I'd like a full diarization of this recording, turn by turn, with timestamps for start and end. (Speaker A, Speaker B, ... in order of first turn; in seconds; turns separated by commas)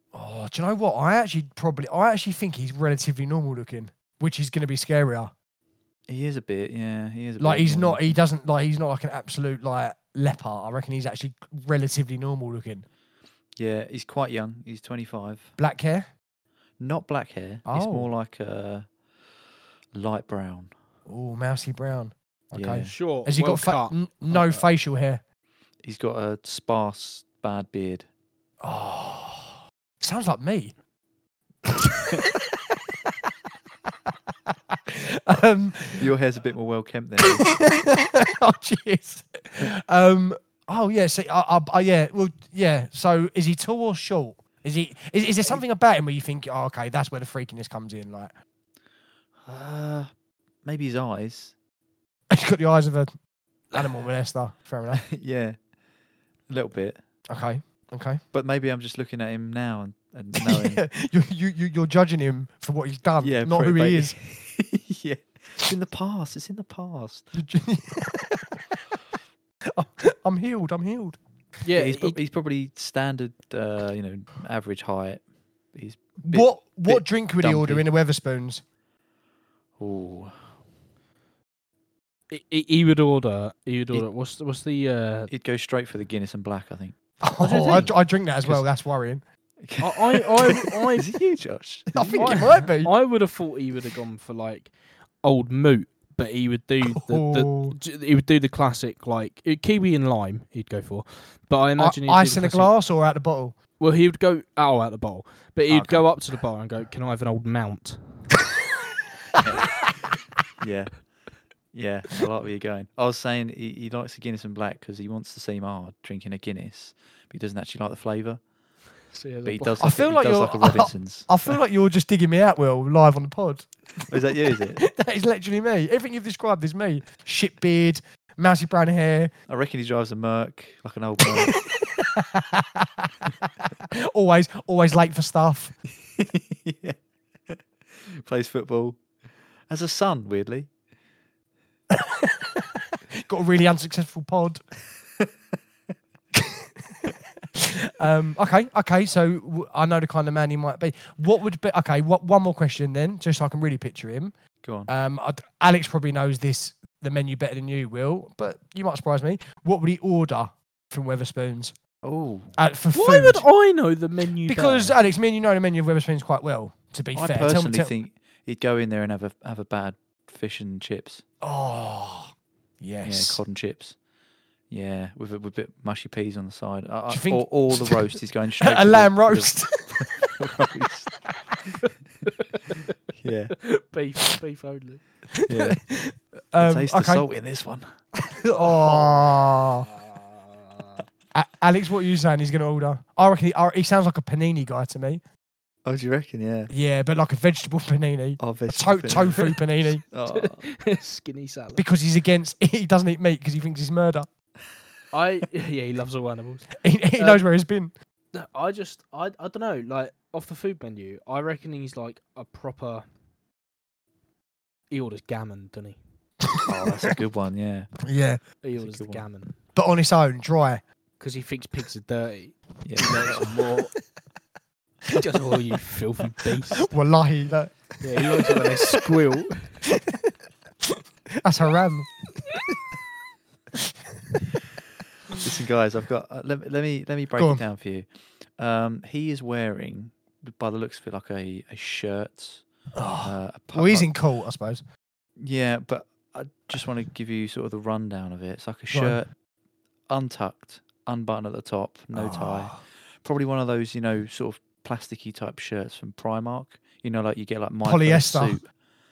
Speaker A: 0.1-5.3, Speaker B: 6.1-8.2, Speaker A: 7.4-12.9, Speaker B: 13.6-15.5, Speaker A: 15.6-16.1, Speaker B: 16.8-18.9, Speaker A: 17.6-18.1, Speaker B: 19.9-20.7, Speaker A: 21.1-25.2, Speaker B: 22.5-22.9, Speaker C: 22.9-24.6, Speaker B: 25.8-28.1, Speaker A: 28.6-30.8, Speaker A: 31.7-32.4, Speaker A: 34.7-36.1, Speaker B: 36.0-37.5, Speaker A: 37.2-48.3, Speaker B: 49.5-50.1, Speaker B: 50.6-51.5, Speaker A: 52.3-53.1, Speaker A: 53.7-55.1, Speaker B: 54.9-55.6, Speaker B: 56.5-57.0, Speaker A: 57.3-58.2, Speaker B: 58.3-60.8, Speaker A: 60.4-64.2, Speaker B: 63.2-67.3, Speaker A: 67.3-68.8, Speaker A: 69.7-71.2, Speaker C: 71.6-72.2, Speaker B: 71.7-77.9, Speaker A: 76.2-78.6, Speaker B: 79.8-80.5, Speaker C: 82.3-85.3, Speaker B: 85.3-87.0, Speaker A: 87.2-89.2, Speaker C: 87.4-87.9, Speaker B: 89.6-92.7, Speaker C: 89.8-91.1, Speaker A: 91.9-92.9, Speaker C: 92.1-102.7, Speaker A: 96.9-97.8, Speaker A: 101.8-103.6, Speaker C: 103.8-108.3, Speaker B: 105.7-106.0, Speaker B: 109.4-109.8, Speaker B: 110.6-111.0, Speaker B: 111.7-118.4, Speaker C: 119.1-119.8, Speaker B: 119.5-121.5, Speaker A: 119.8-123.7, Speaker B: 124.1-124.8, Speaker A: 124.6-129.3, Speaker B: 129.5-131.5, Speaker A: 131.3-135.8, Speaker B: 136.1-137.0, Speaker B: 137.5-139.0, Speaker B: 139.7-140.7, Speaker A: 141.9-142.7, Speaker A: 143.2-144.6, Speaker A: 147.6-154.3, Speaker B: 154.6-154.9, Speaker A: 154.9-161.8, Speaker B: 162.0-162.6, Speaker A: 162.6-163.5, Speaker C: 162.9-165.0, Speaker A: 164.4-167.9, Speaker B: 167.1-171.2, Speaker A: 171.4-173.4, Speaker B: 173.0-174.0, Speaker B: 174.7-181.1, Speaker A: 177.1-180.4, Speaker B: 183.1-183.6, Speaker C: 183.6-185.1, Speaker A: 185.3-187.3, Speaker B: 185.5-185.8, Speaker B: 186.6-188.0, Speaker A: 188.3-189.9, Speaker C: 190.0-191.0, Speaker A: 191.3-195.2, Speaker B: 195.8-196.7, Speaker A: 196.7-200.0, Speaker B: 198.4-200.7, Speaker C: 200.3-201.8, Speaker A: 201.8-204.3, Speaker C: 205.1-207.4, Speaker A: 206.8-207.9, Speaker C: 208.3-213.1, Speaker C: 214.9-216.0, Speaker A: 216.5-217.1, Speaker B: 216.7-217.9, Speaker A: 218.1-218.4, Speaker C: 218.6-219.6, Speaker B: 218.8-219.2, Speaker A: 219.7-220.8, Speaker C: 221.2-223.9, Speaker B: 222.8-223.6, Speaker C: 225.1-226.9, Speaker A: 226.8-229.0, Speaker C: 228.0-229.8, Speaker A: 230.9-232.6, Speaker B: 235.4-242.6, Speaker A: 237.4-237.6, Speaker A: 243.0-244.8, Speaker B: 243.2-244.1, Speaker B: 245.4-249.3, Speaker A: 248.9-249.2, Speaker B: 250.1-258.7, Speaker A: 252.1-252.8, Speaker A: 257.8-258.6